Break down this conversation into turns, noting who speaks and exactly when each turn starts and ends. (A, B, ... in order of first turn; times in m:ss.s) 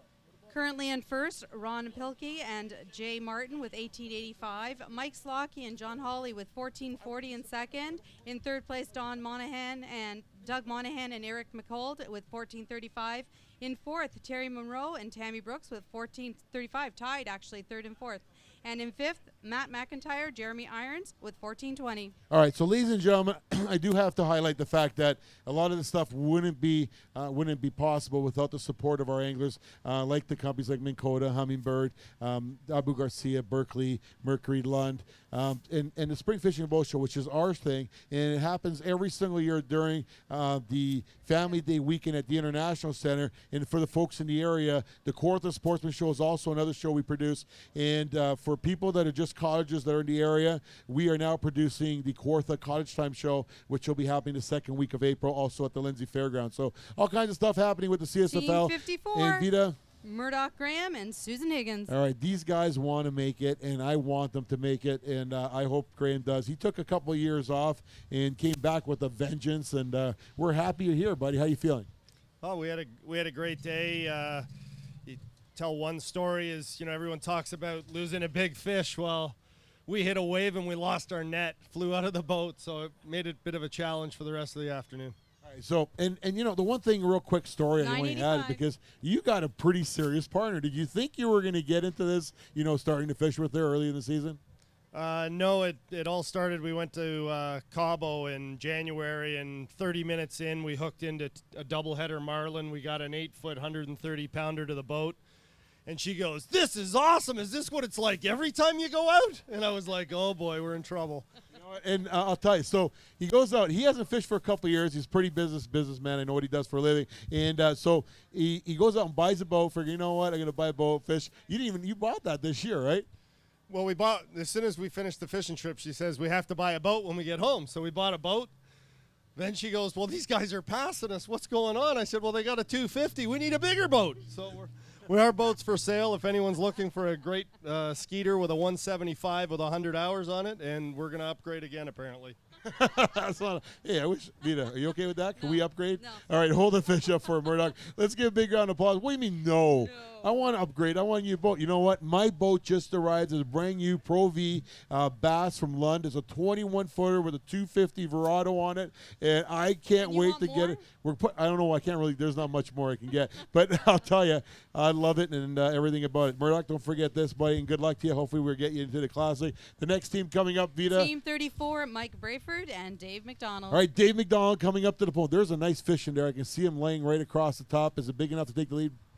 0:00.5-0:22.1 A
0:22.3-0:59.8 B
0:58.3-0:59.5 A
1:00.0-1:01.9 A
1:01.9-1:11.9 B
1:12.4-1:14.4 C
1:15.0-1:25.2 C
1:25.4-1:34.4 B
1:27.8-1:28.6 A
1:34.9-1:45.2 C
1:45.8-1:51.3 C
1:51.5-2:03.1 B
2:03.7-2:08.5 C
2:09.4-2:22.4 C
2:22.6-2:51.1 B
2:25.4-2:26.2 A
2:27.1-2:27.5 A
2:29.8-2:30.4 A
2:40.0-2:40.8 A
2:50.9-2:53.8 A
2:53.7-2:59.0 B